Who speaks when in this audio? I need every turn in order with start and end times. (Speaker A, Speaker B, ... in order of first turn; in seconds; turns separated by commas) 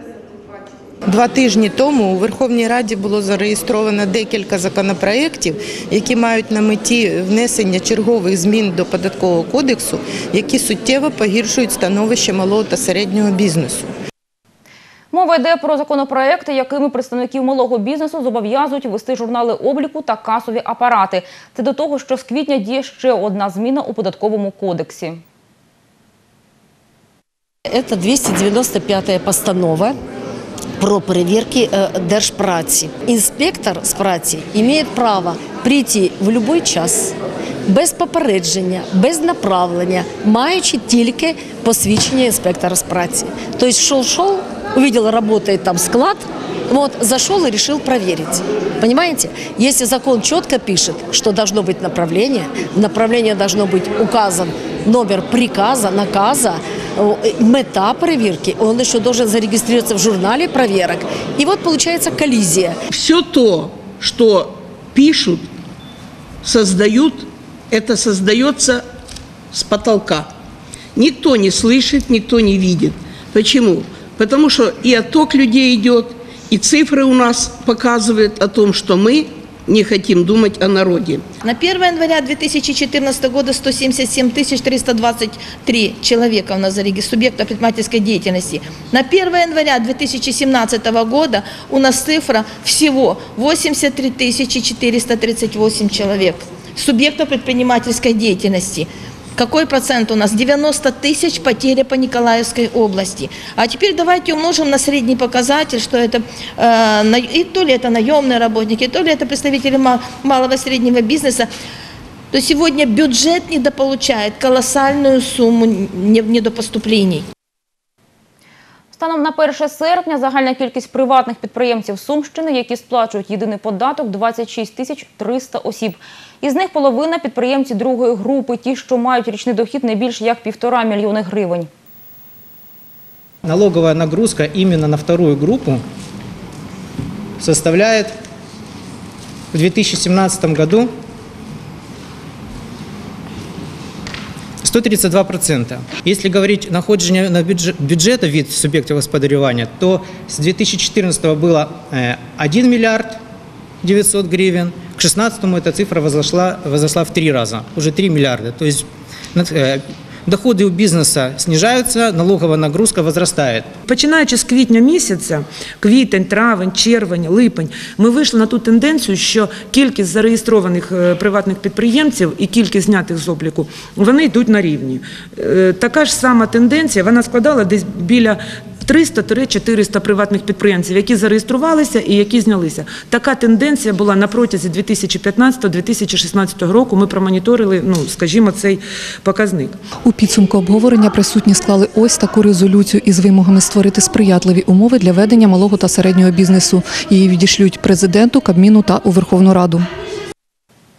Speaker A: 1.1-13.9, Speaker B: 15.1-25.2, Speaker C: 27.7-29.9, Speaker C: 30.8-37.1, Speaker C: 37.6-62.8, Speaker D: 62.9-65.5, Speaker D: 66.4-68.8, Speaker D: 69.5-70.3, Speaker D: 70.9-81.2, Speaker E: 81.4-111.5, Speaker E: 112.3-117.2, Speaker B: 118.9-131.7, Speaker F: 133.4-135.8, Speaker F: 137.4-138.1, Speaker F: 139.5-140.9, Speaker F: 144.6-153.2, Speaker F: 153.8-163.7, Speaker G: 163.9-189.8, Speaker H: 190.0-199.9